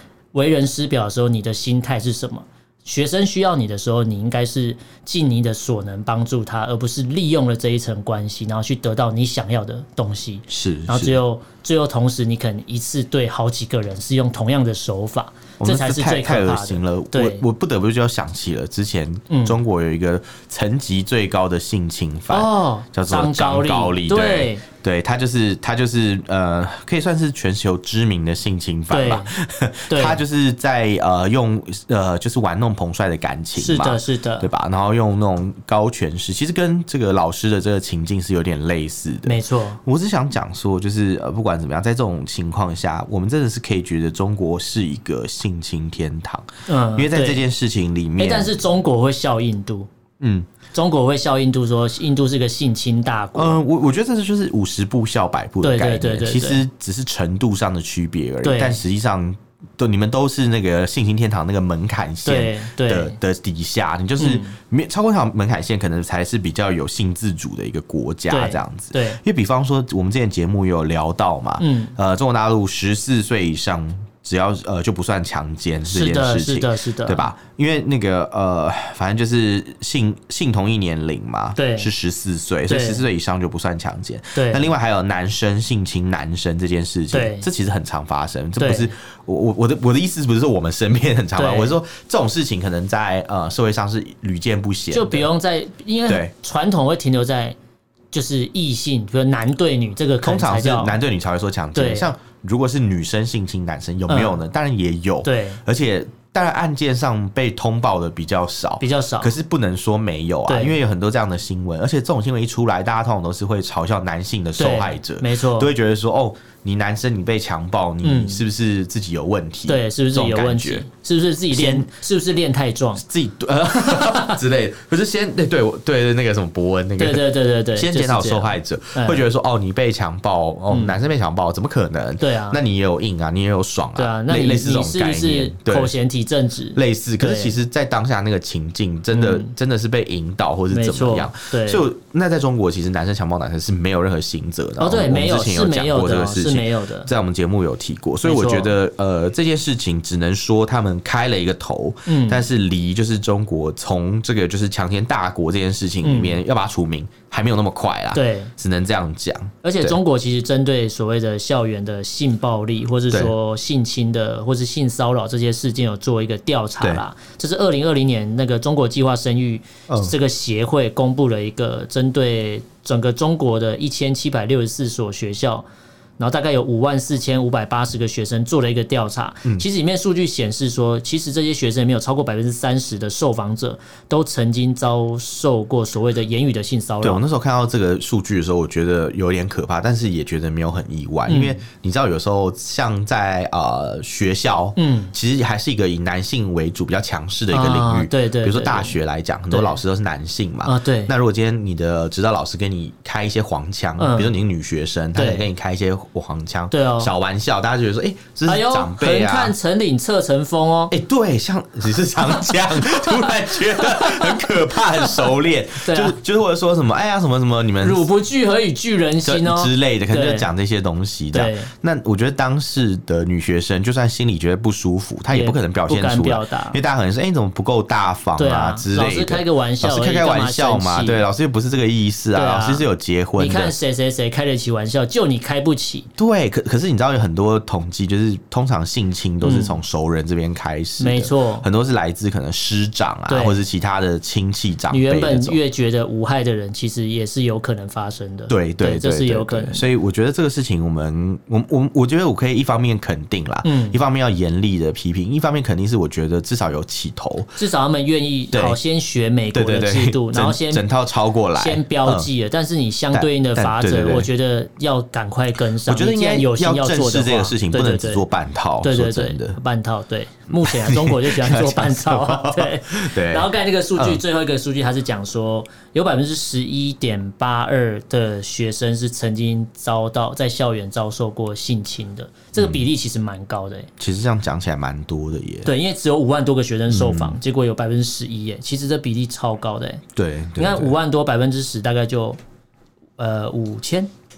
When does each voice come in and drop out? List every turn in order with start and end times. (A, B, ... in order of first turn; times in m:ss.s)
0:00.3-0:17.4 A
0:10.5-0:11.2 B
0:15.6-0:48.5 B
0:19.3-0:19.6 A
0:22.3-0:24.6 A
0:28.9-0:29.3 A
0:29.9-0:30.2 A
0:33.6-0:34.5 A
0:39.2-0:39.8 A
0:46.7-0:47.4 A
0:48.2-0:49.9 A
0:50.2-0:50.5 B
0:50.7-0:53.6 A
0:53.3-1:35.3 B
0:55.6-0:56.6 A
0:58.4-0:58.8 A
1:02.2-1:03.2 A
1:04.2-1:04.6 A
1:08.3-1:09.2 A
1:11.6-1:11.9 A
1:15.9-1:17.3 A
1:21.6-1:21.9 A
1:22.7-1:23.0 A
1:24.3-1:24.7 A
1:27.1-1:27.5 A
1:28.6-1:28.9 A
1:31.4-1:31.7 A
1:34.9-1:37.6 A
1:36.1-1:36.3 B
1:38.1-1:41.0 A
1:40.2-2:00.8 B
1:41.7-1:42.1 A
1:44.1-1:44.4 A
1:45.2-1:45.6 A
1:48.8-1:49.3 A
1:50.5-1:50.8 A
1:54.6-1:55.7 A
1:58.0-1:58.4 A
1:59.7-2:03.0 A
2:01.5-2:01.9 B
2:03.0-2:15.9 B
2:03.9-2:04.3 A
2:07.0-2:09.2 A
2:10.7-2:11.0 A
2:12.2-2:12.6 A
2:14.0-2:17.5 A
2:16.7-2:40.0 B
2:19.1-2:19.5 A
2:20.7-2:21.8 A
2:24.8-2:27.1 A
2:28.2-2:28.7 A
2:32.0-2:32.4 A
2:36.0-2:36.4 A
2:38.1-2:38.5 A
2:39.6-2:55.7 A
2:49.9-2:50.1 B
2:56.2-3:07.2 A
3:07.0-3:29.5 B
3:11.3-3:11.6 A
3:14.8-3:15.1 A
3:17.5-3:19.0 A
3:19.5-3:19.8 A
3:20.6-3:21.1 A
3:24.0-3:24.3 A
3:25.1-3:25.5 A
3:26.7-3:27.1 A
3:28.4-3:30.9 A
3:30.9-3:38.0 B
3:32.9-3:35.3 A
3:35.8-3:36.2 A
3:37.8-3:40.5 A
3:39.2-3:53.7 B
3:41.3-3:41.7 A
3:45.3-3:46.8 A
3:48.4-3:51.2 A
3:52.3-3:56.1 A
3:56.2-4:05.6 B
3:59.4-3:59.8 A
4:01.0-4:01.6 A
4:03.3-4:03.6 A
4:04.9-4:09.8 A
4:08.5-4:17.6 B
4:13.6-4:14.0 A
4:17.6-4:20.8 A
4:18.5-4:18.8 B
4:19.5-4:22.3 B
4:21.5-4:28.2 A
4:23.1-4:24.3 B
4:25.8-4:29.6 B
4:28.8-4:43.9 A
4:30.5-4:34.2 B
4:42.6-4:42.8 B
4:44.0-4:45.7 B
4:45.6-4:50.0 A
4:46.9-4:47.4 B
4:50.2-4:51.0 B
4:50.6-4:52.4 A
4:53.2-4:54.1 A